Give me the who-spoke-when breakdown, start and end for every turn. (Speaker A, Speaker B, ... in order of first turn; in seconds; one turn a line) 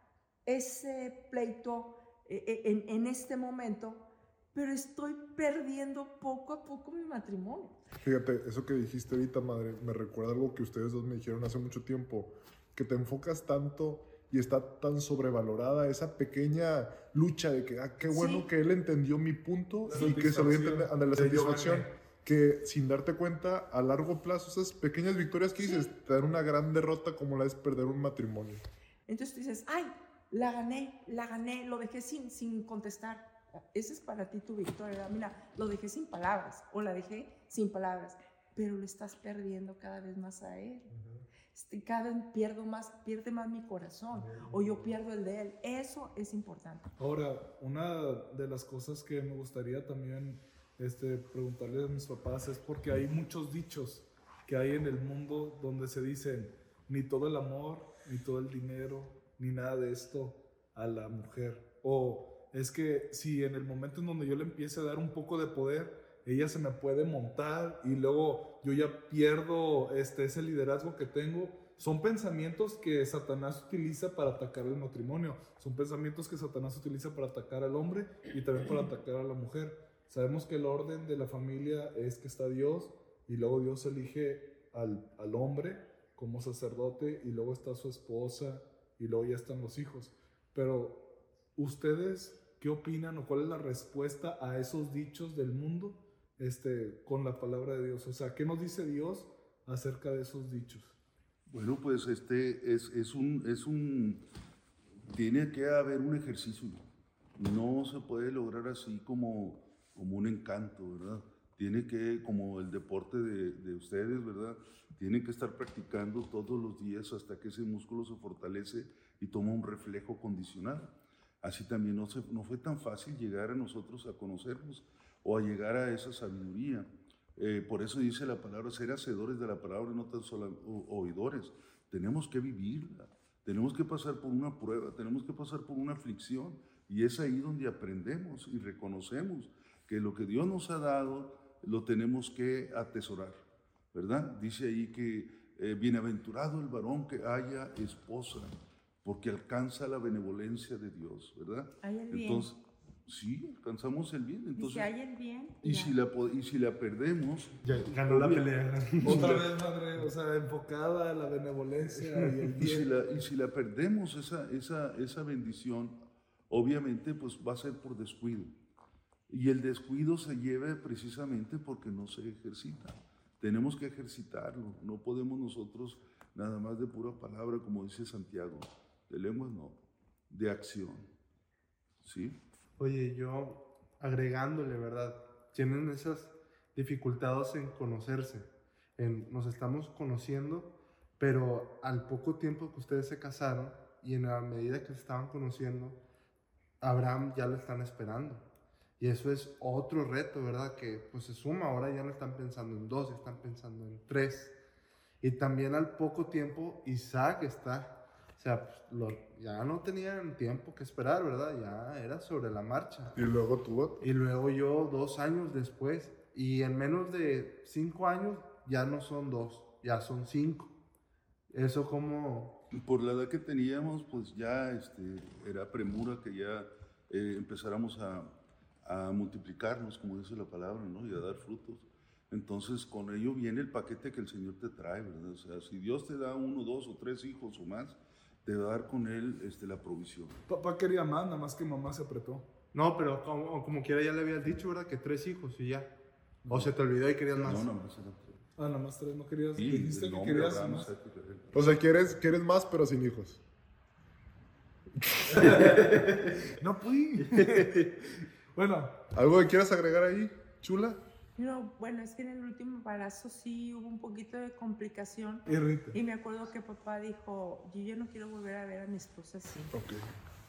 Speaker A: 0.5-7.8
Speaker B: 8.0-28.6
Speaker A: 18.1-18.4
Speaker C: 19.9-21.9
Speaker A: 29.1-40.9
Speaker B: 40.9-41.2
Speaker A: 41.5-46.9
Speaker B: 44.1-44.9
Speaker C: 47.0-100.9
Speaker D: 101.5-104.2
Speaker D: 105.1-106.8
Speaker D: 107.4-143.4
Speaker D: 143.9-154.9
Speaker A: 151.8-152.5
Speaker A: 154.6-155.9
Speaker D: 155.6-158.5
Speaker E: 157.6-159.5
Speaker C: 159.0-162.9
Speaker D: 159.0-159.4
Speaker E: 162.0-162.3
Speaker D: 162.6-165.9
Speaker D: 166.5-168.5
Speaker D: 169.3-181.1
Speaker D: 182.0-182.4
Speaker E: 182.8-196.0
Speaker E: 196.8-198.4
Speaker E: 199.0-204.5
Speaker E: 205.2-213.2
Speaker B: 213.1-214.0
Speaker E: 214.0-220.7
Speaker E: 221.5-222.6
Speaker D: 222.7-228.3
Speaker D: 228.8-240.4
Speaker C: 240.5-242.5
Speaker E: 242.7-245.9
Speaker E: 246.5-247.7
Speaker D: 247.4-248.4
Speaker C: 248.6-250.9
Speaker D: 249.6-251.5
Speaker B: 251.5-253.4
Speaker B: 255.1-255.6
Speaker C: 255.3-259.0
Speaker E: 255.5-256.3
Speaker E: 257.3-257.9
Speaker B: 259.1-261.0
Speaker A: 261.4-269.8
Speaker C: 265.4-266.0
Speaker B: 269.7-270.1